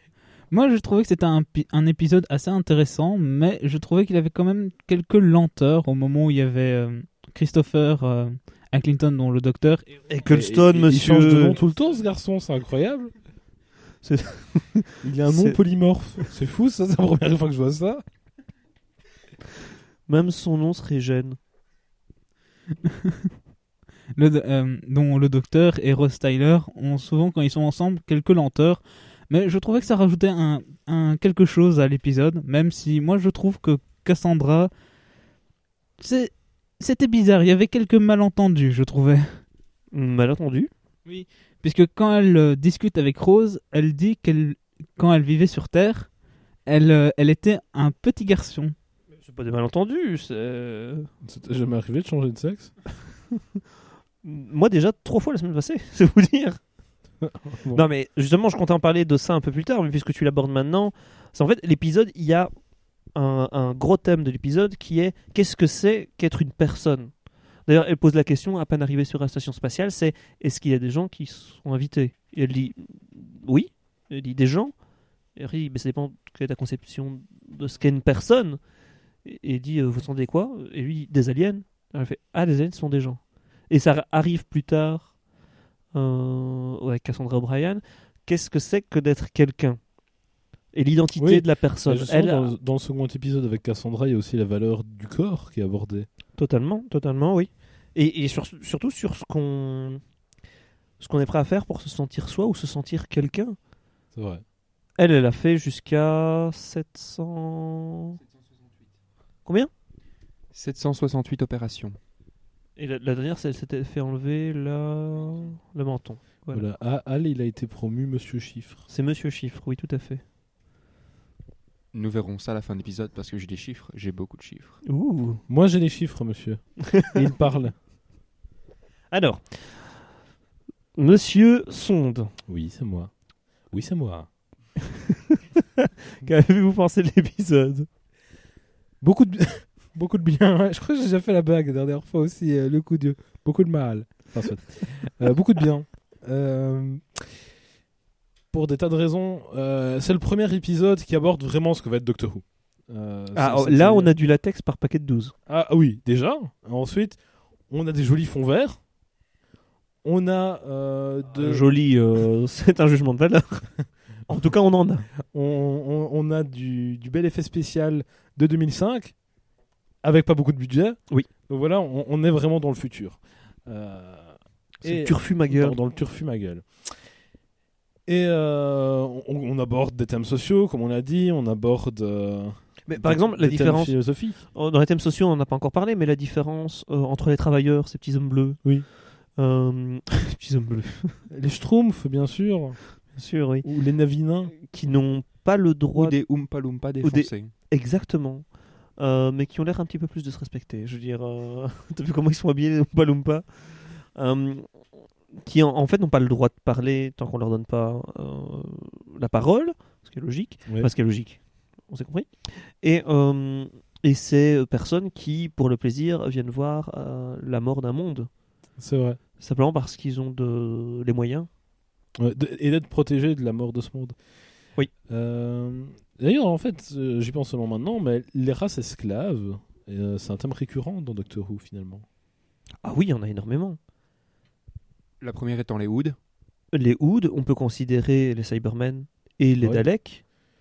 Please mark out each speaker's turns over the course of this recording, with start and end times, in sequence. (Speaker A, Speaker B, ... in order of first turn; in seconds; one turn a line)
Speaker A: 0.5-10.1
Speaker B: 10.1-11.6
Speaker C: 10.2-13.1
Speaker B: 14.0-15.6
Speaker C: 15.0-18.0
Speaker B: 20.1-21.4
Speaker A: 22.8-23.3
Speaker A: 24.1-34.7
Speaker A: 36.0-39.4
Speaker B: 39.9-40.7
Speaker A: 41.0-46.1
Speaker A: 46.6-48.7
Speaker B: 49.2-51.1
Speaker C: 51.2-52.8
Speaker B: 54.2-56.6
Speaker C: 57.2-57.8
Speaker B: 57.7-62.5
Speaker B: 63.1-67.1
Speaker B: 67.7-74.7
Speaker B: 75.3-78.6
Speaker B: 79.2-85.2
Speaker B: 85.9-89.8
Speaker B: 90.7-92.5
Speaker C: 91.2-96.1
Speaker B: 96.4-100.0
Speaker B: 101.0-103.6
Speaker C: 104.1-104.4
Speaker B: 105.0-108.2
Speaker B: 109.4-109.7
Speaker D: 110.5-112.0
Speaker B: 112.8-116.6
Speaker C: 116.5-118.8
Speaker B: 118.9-120.2
Speaker D: 121.9-124.8
Speaker B: 124.8-125.4
Speaker C: 125.5-127.7
Speaker B: 129.1-130.0
Speaker B: 131.0-132.3
Speaker C: 132.5-133.1
Speaker C: 133.7-134.3
Speaker B: 135.3-137.9
Speaker C: 139.0-147.4
Speaker C: 148.5-154.1
Speaker B: 153.3-155.3
Speaker C: 155.5-157.2
Speaker C: 157.7-158.8
Speaker C: 160.0-161.6
Speaker B: 161.4-163.7
Speaker B: 164.3-165.1
Speaker C: 165.3-169.2
Speaker C: 170.0-177.0
Speaker B: 174.8-175.8
Speaker C: 178.1-184.4
Speaker B: 182.8-191.2
Speaker C: 191.3-193.0
Speaker B: 193.1-193.7
Speaker C: 193.6-194.5
Speaker B: 194.5-196.2
Speaker D: 195.9-197.5
Speaker B: 197.0-204.7
Speaker B: 205.4-218.3
Speaker C: 218.8-219.2
Speaker B: 219.4-221.5
Speaker C: 222.2-224.2
Speaker C: 225.1-232.0
Speaker B: 232.8-233.8
Speaker D: 235.2-236.2
Speaker B: 236.7-240.2